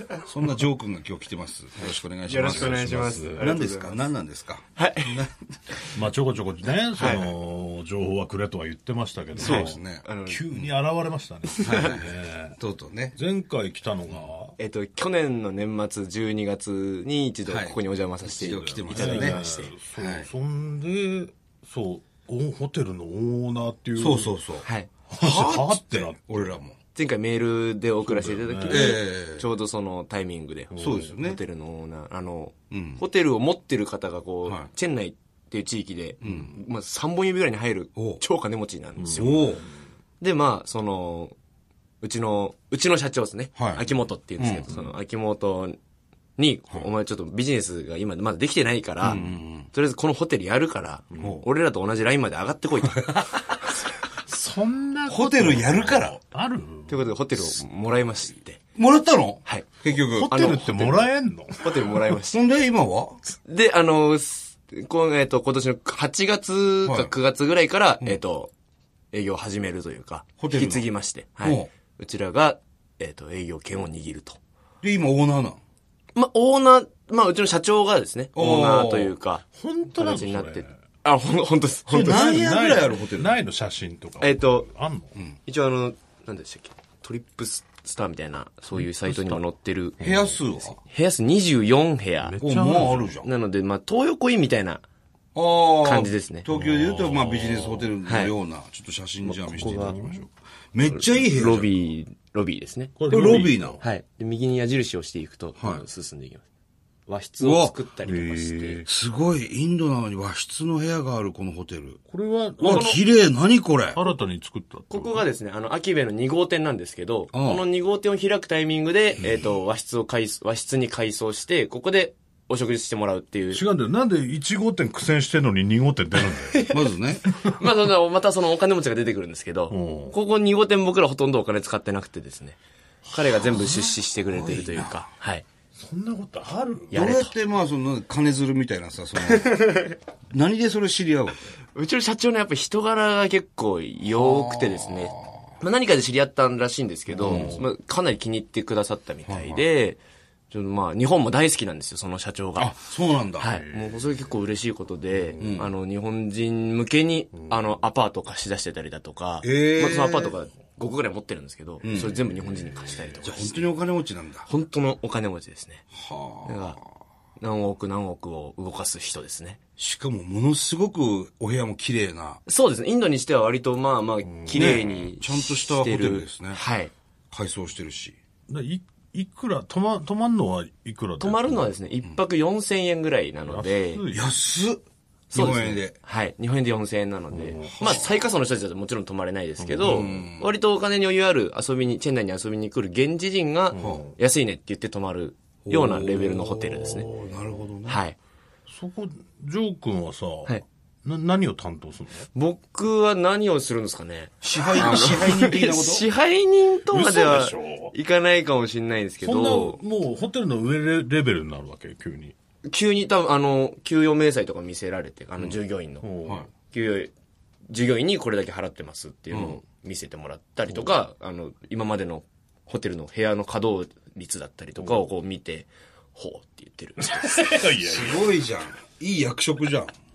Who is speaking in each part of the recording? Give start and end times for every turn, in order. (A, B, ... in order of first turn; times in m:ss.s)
0:00.2-0:05.4 A
0:02.3-0:04.0 B
0:02.3-0:03.6 C
0:04.8-0:05.8 B
0:05.9-0:12.6 C
0:07.0-0:07.3 B
0:09.4-0:10.7 A
0:09.4-0:10.5 B
0:11.5-0:11.9 B
0:11.6-0:13.2 A
0:13.1-0:14.6 C
0:14.6-0:19.7 B
0:17.5-0:19.4 A
0:18.6-0:24.3 C
0:20.0-0:20.3 A
0:24.0-0:26.8 A
0:24.6-0:24.9 B
0:25.1-0:26.5 C
0:26.9-0:39.4 B
0:28.0-0:28.9 C
0:28.7-0:29.4 A
0:30.7-0:31.0 C
0:30.8-0:31.4 A
0:32.7-0:33.0 A
0:36.2-0:36.6 A
0:38.0-0:38.2 A
0:39.0-0:39.6 C
0:39.2-0:39.6 A
0:40.2-0:41.3 B
0:42.0-0:45.8 B
0:43.6-0:43.8 A
0:44.4-0:44.9 A
0:46.4-0:53.8 B
0:49.0-0:49.7 A
0:51.2-0:51.4 A
0:54.2-0:57.6 C
0:55.1-0:56.2 A
0:56.9-0:58.6 B
0:58.8-1:01.1 A
0:59.9-1:02.1 C
1:00.2-1:01.0 B
1:01.6-1:02.4 B
1:02.3-1:03.2 A
1:03.3-1:08.5 B
1:06.8-1:07.1 A
1:09.1-1:14.4 B
1:10.4-1:10.9 A
1:11.4-1:11.7 A
1:14.8-1:15.6 A
1:16.2-1:22.3 B
1:18.3-1:19.1 A
1:19.5-1:20.7 C
1:21.9-1:23.4 A
1:21.9-1:25.1 C
1:24.2-1:24.7 B
1:25.5-1:30.0 B
1:28.7-1:29.4 C
1:30.0-1:30.4 C
1:30.0-1:30.8 A
1:30.8-1:32.4 B
1:32.2-1:33.2 C
1:32.4-1:33.3 A
1:33.2-1:34.8 B
1:35.3-1:41.7 A
1:35.8-1:36.4 B
1:36.5-1:37.9 C
1:38.0-1:38.3 B
1:39.2-1:40.2 C
1:39.6-1:39.9 B
1:40.8-1:41.3 C
1:41.3-1:43.0 B
1:43.0-1:43.8 C
1:43.1-1:43.8 A
1:43.8-1:46.4 B
1:45.6-1:45.8 A
1:47.1-1:48.8 B
1:47.4-1:47.7 A
1:48.0-1:48.9 C
1:48.9-1:52.0 A
1:52.1-1:53.0 C
1:52.6-1:53.0 B
1:52.6-1:54.0 A
1:53.9-1:55.2 C
1:54.9-2:03.6 B
1:57.3-1:57.6 A
2:03.5-2:06.7 C
2:06.2-2:12.6 B
2:06.7-2:07.2 A
2:09.7-2:10.2 C
2:13.0-2:14.0 C
2:13.1-2:15.4 B
2:14.2-2:15.1 A
2:15.7-2:17.0 C
2:16.9-2:17.3 B
2:16.9-2:19.6 A
2:19.2-2:20.0 B
2:20.3-2:21.6 A
2:21.7-2:30.0 B
2:24.0-2:25.5 A
2:27.1-2:27.7 C
2:27.2-2:27.6 A
2:29.2-2:29.6 A
2:30.5-2:32.8 B
2:32.6-2:33.5 A
2:33.4-2:43.6 B
2:33.4-2:34.4 C
2:35.1-2:35.7 C
2:35.4-2:35.7 A
2:37.3-2:37.8 C
2:39.4-2:40.4 A
2:41.8-2:42.2 A
2:41.9-2:43.4 C
2:43.2-2:44.5 A
2:44.4-2:45.8 B
2:45.9-2:46.8 A
2:46.4-2:46.8 B
2:47.4-2:49.6 B
2:49.8-2:52.4 A
2:52.4-2:56.9 B
2:54.2-2:55.1 C
2:54.5-2:56.6 A
2:57.3-2:58.2 A
2:58.5-3:01.7 C
3:01.2-3:04.0 B
3:03.4-3:04.4 C
3:04.1-3:04.8 A
3:05.3-3:17.1 B
3:05.3-3:05.9 A
3:07.3-3:08.0 C
3:07.6-3:08.2 A
3:09.6-3:10.3 C
3:09.8-3:10.5 A
3:13.7-3:14.2 C
3:13.8-3:14.0 A
3:15.6-3:18.0 A
3:16.8-3:17.6 C
3:17.8-3:18.2 B
3:18.7-3:22.3 C
3:22.3-3:29.8 B
3:24.4-3:26.1 A
3:26.9-3:27.9 C
3:29.2-3:32.3 C
3:32.7-3:36.1 B
3:36.0-3:36.5 C
3:36.7-3:37.1 B
3:37.7-3:47.7 B
3:39.3-3:39.6 A
3:44.8-3:45.0 C
3:47.0-3:48.4 C
3:47.8-3:49.9 A